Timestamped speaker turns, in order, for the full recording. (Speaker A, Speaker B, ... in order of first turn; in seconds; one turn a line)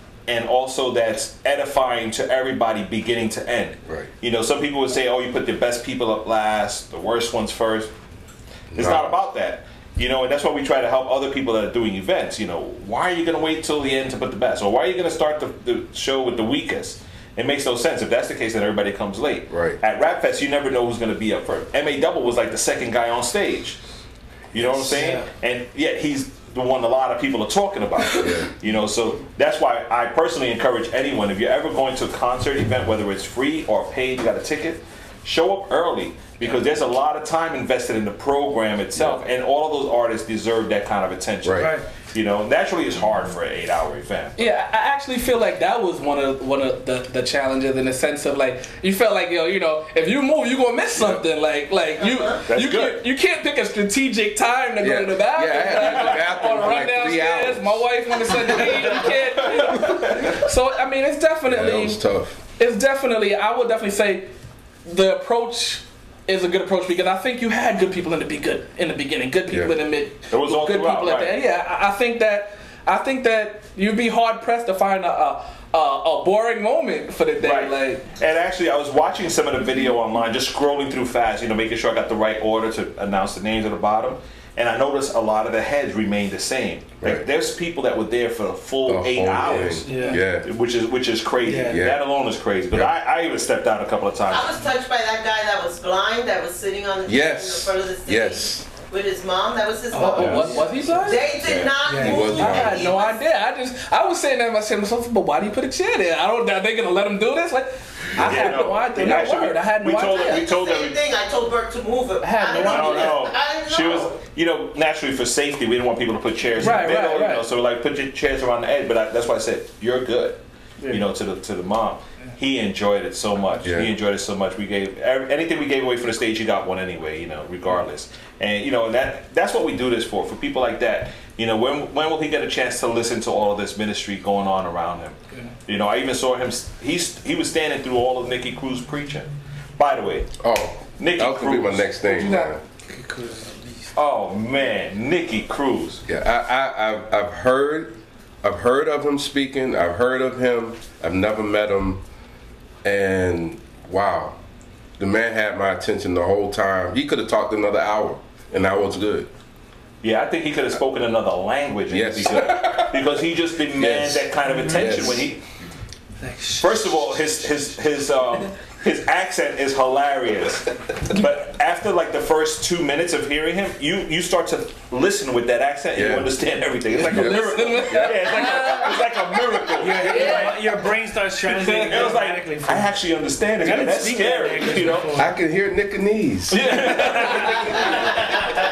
Speaker A: 0.3-7.9
Speaker B: 8.7-9.2
Speaker A: 8.7-23.8
Speaker B: 19.5-19.8
Speaker A: 24.5-44.5
Speaker C: 24.6-25.3
Speaker B: 28.0-28.5
Speaker B: 39.0-39.2
Speaker B: 41.4-41.8
Speaker C: 41.6-41.9
Speaker D: 44.4-64.3
Speaker B: 50.9-51.2
Speaker A: 52.5-53.0
Speaker B: 54.8-59.1
Speaker A: 59.6-60.4
Speaker B: 59.7-60.0
Speaker B: 61.5-62.4
Speaker D: 64.8-78.0
Speaker B: 69.5-69.7
Speaker A: 70.3-71.3
Speaker A: 77.4-94.5
Speaker B: 88.9-90.5
Speaker D: 89.5-90.1
Speaker C: 89.8-90.2
Speaker C: 91.4-91.8
Speaker B: 91.5-92.0
Speaker E: 94.3-103.2
Speaker B: 97.0-98.7
Speaker C: 99.9-101.2
Speaker D: 100.0-110.3
Speaker B: 101.4-102.8
Speaker C: 101.8-102.6
Speaker B: 108.1-108.7
Speaker A: 108.2-111.0
Speaker E: 110.0-114.2
Speaker D: 112.2-113.2
Speaker A: 112.5-140.4
Speaker D: 116.6-117.5
Speaker D: 120.8-121.0
Speaker B: 123.6-123.9
Speaker B: 140.4-142.6
Speaker A: 141.0-142.3
Speaker D: 142.0-142.5
Speaker C: 142.9-143.9
Speaker A: 143.9-146.0
Speaker B: 146.1-152.0
Speaker B: 152.8-154.4
Speaker B: 155.0-159.3
Speaker A: 160.0-165.4
Speaker B: 161.9-165.3
Speaker C: 164.4-165.1
Speaker C: 166.2-167.3
Speaker A: 166.6-180.5
Speaker B: 175.9-176.3
Speaker B: 176.8-178.8
Speaker D: 177.0-180.9
Speaker C: 179.8-183.0
Speaker D: 181.4-182.1
Speaker A: 181.9-185.3
Speaker C: 183.6-185.4
Speaker B: 185.1-187.9
Speaker A: 186.5-188.4